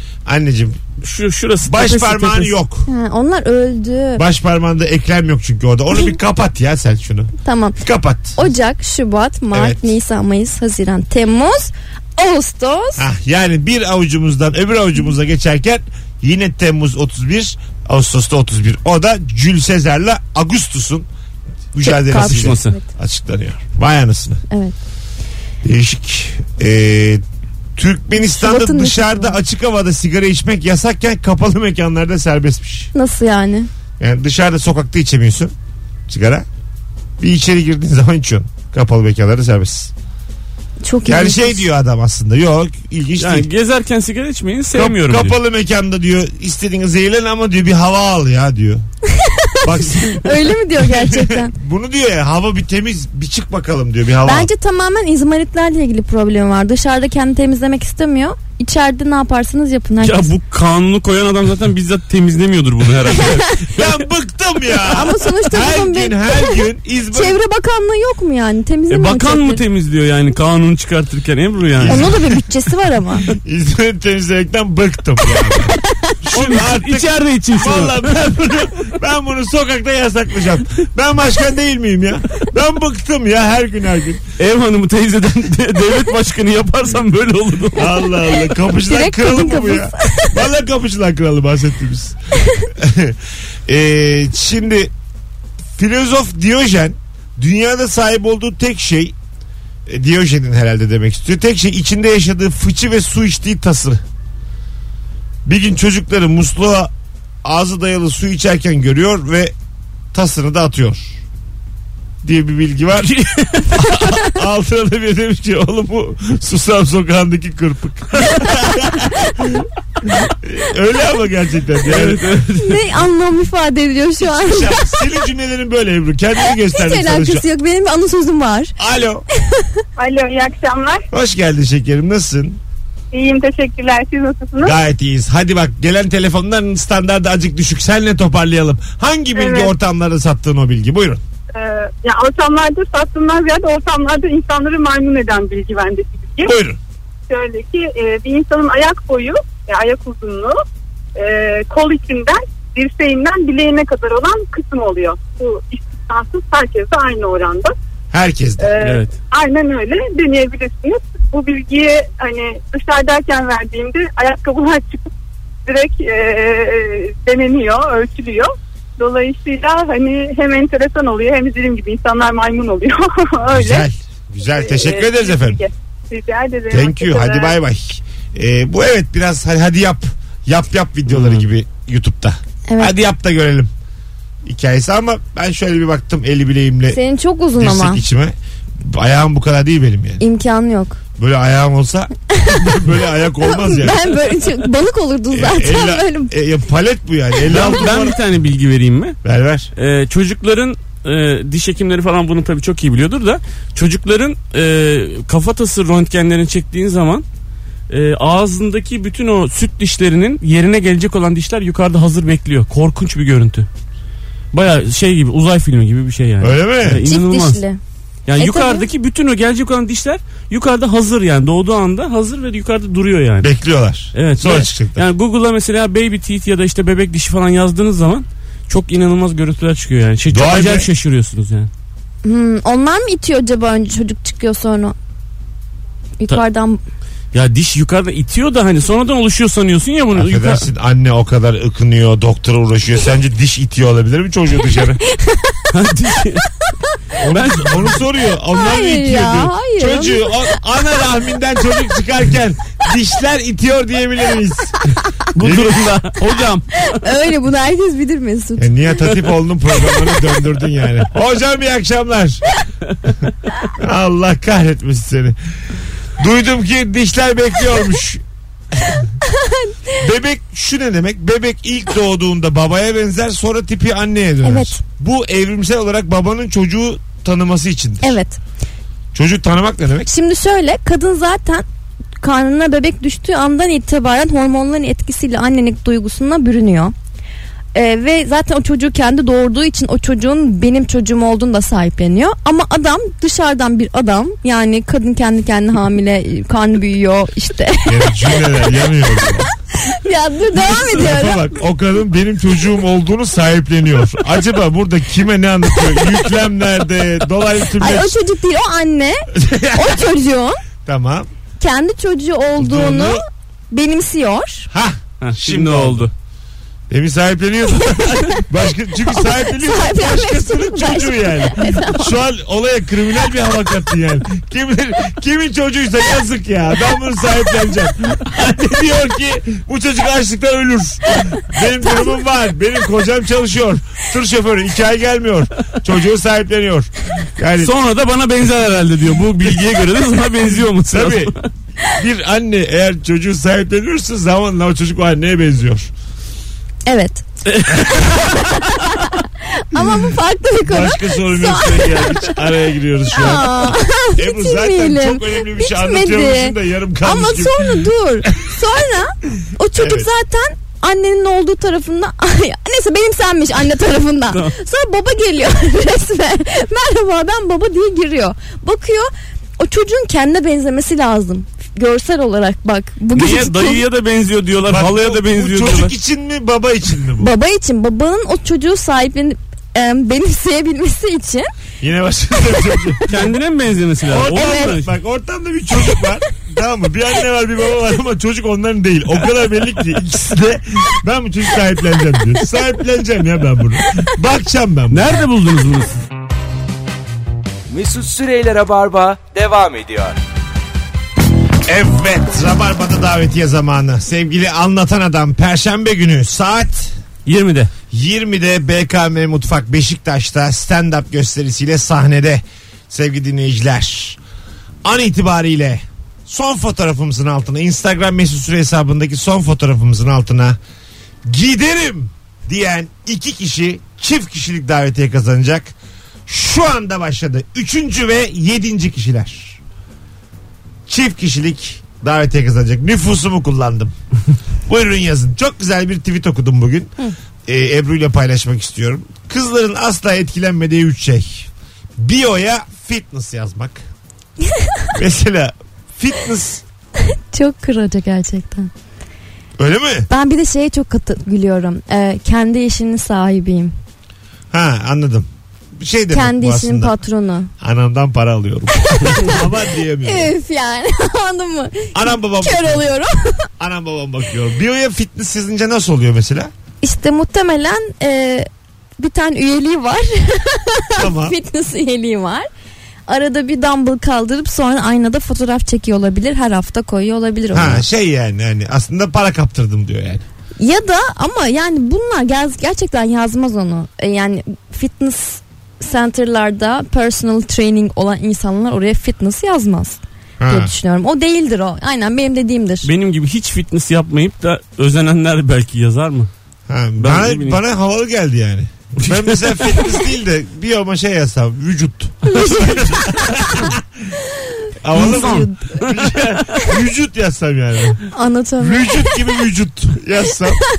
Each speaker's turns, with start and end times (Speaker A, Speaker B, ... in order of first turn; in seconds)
Speaker A: 0.2-0.8, 1.6-2.9, 4.2-8.4, 9.5-9.9, 13.0-21.1, 21.7-24.4, 25.6-27.2, 27.8-32.9, 34.0-35.5, 36.1-36.5, 37.2-39.9, 41.0-43.5, 44.7-48.8, 49.6-54.5, 63.6-67.4, 71.8-72.2, 73.3-84.2, 87.8-94.9, 95.8-99.1, 99.9-104.0, 105.4-106.9, 107.4-109.5, 110.1-111.2, 112.2-113.1, 113.7-122.4, 124.2-127.4, 128.8-129.2, 131.1-132.6, 134.6-141.2, 146.4-146.8, 158.1-158.7, 173.5-175.6, 176.7-183.7, 184.4-187.0, 187.6-190.2, 191.2-194.1, 195.3-198.2, 199.2-199.7, 216.4-217.0, 223.4-225.1, 230.3-230.9, 240.1-245.0, 247.2-255.9, 258.6-262.4, 263.8-265.4, 266.2-269.0, 269.9-278.2, 279.1-280.1, 297.9-299.5, 300.6-308.2, 309.3-310.0, 310.9-311.3, 312.6-313.2, 314.7-316.1, 316.9-337.7, 340.9-341.3, 341.9-345.9, 347.8-348.6, 349.7-350.1, 350.6-357.8, 359.8-360.1, 374.7-377.3, 381.8-383.2, 384.1-395.1, 401.6-406.9, 407.9-414.2, 414.8-420.6, 421.3-425.7, 426.3-429.6, 430.9-433.9, 434.7-436.9, 437.4-443.8, 444.9-446.6, 449.6-450.1, 454.5-456.9, 457.6-460.3, 461.9-462.8, 463.6-466.5, 471.0-471.4, 477.5-480.2, 490.4-490.7, 496.7-503.8, 504.8-508.1, 508.6-510.6
Speaker B: 1.0-2.5, 22.1-22.7, 43.2-45.4, 60.0-64.0, 68.9-72.2, 76.3-78.1, 84.4-87.9, 113.0-113.8, 121.8-122.9, 158.8-159.1, 181.1-181.4, 197.5-199.2, 199.8-207.2, 207.9-213.7, 214.5-217.6, 218.2-223.5, 224.1-231.7, 237.3-240.7, 245.7-246.5, 247.2-248.0, 255.3-256.6, 315.2-316.1, 337.6-341.5, 347.4-348.3, 373.1-375.9, 383.1-384.9, 394.9-396.0, 407.2-407.7, 492.8-496.3, 497.0-497.6, 499.0-499.8, 504.9-506.6
Speaker C: 2.9-4.2, 7.4-7.8, 8.3-13.1, 21.8-22.8, 24.5-24.7, 28.2-29.4, 32.9-33.7, 40.8-41.6, 49.2-51.5, 54.2-60.3, 64.9-69.6, 71.8-73.3, 88.0-90.4, 122.5-125.0, 126.5-128.7, 182.7-182.9, 186.9-188.0, 190.2-191.0, 192.3-192.8, 193.4-196.3, 217.0-217.8, 218.4-218.9, 232.2-234.9, 236.2-236.8, 245.0-245.7, 248.5-250.6, 256.8-258.9, 269.2-269.9, 274.4-274.8, 278.0-278.4, 280.1-281.6, 282.2-286.9, 287.7-298.4, 299.7-301.4, 307.8-310.6, 311.6-314.7, 318.0-318.4, 319.1-322.1, 331.8-332.1, 346.9-347.2, 348.7-352.4, 353.1-373.8, 377.2-381.5, 384.3-384.7, 447.0-448.7, 450.1-453.7, 456.1-457.5, 458.8-459.4, 460.0-463.5, 466.8-472.5, 473.1-477.8, 480.6-492.9, 502.2-503.7, 504.4-505.8, 508.1-509.2
Speaker D: 130.0-131.0, 133.1-134.8, 139.3-139.7, 141.5-146.5, 147.3-150.6, 151.2-157.7, 158.6-165.1, 165.7-173.9, 174.5-177.6
Speaker E: 397.7-400.1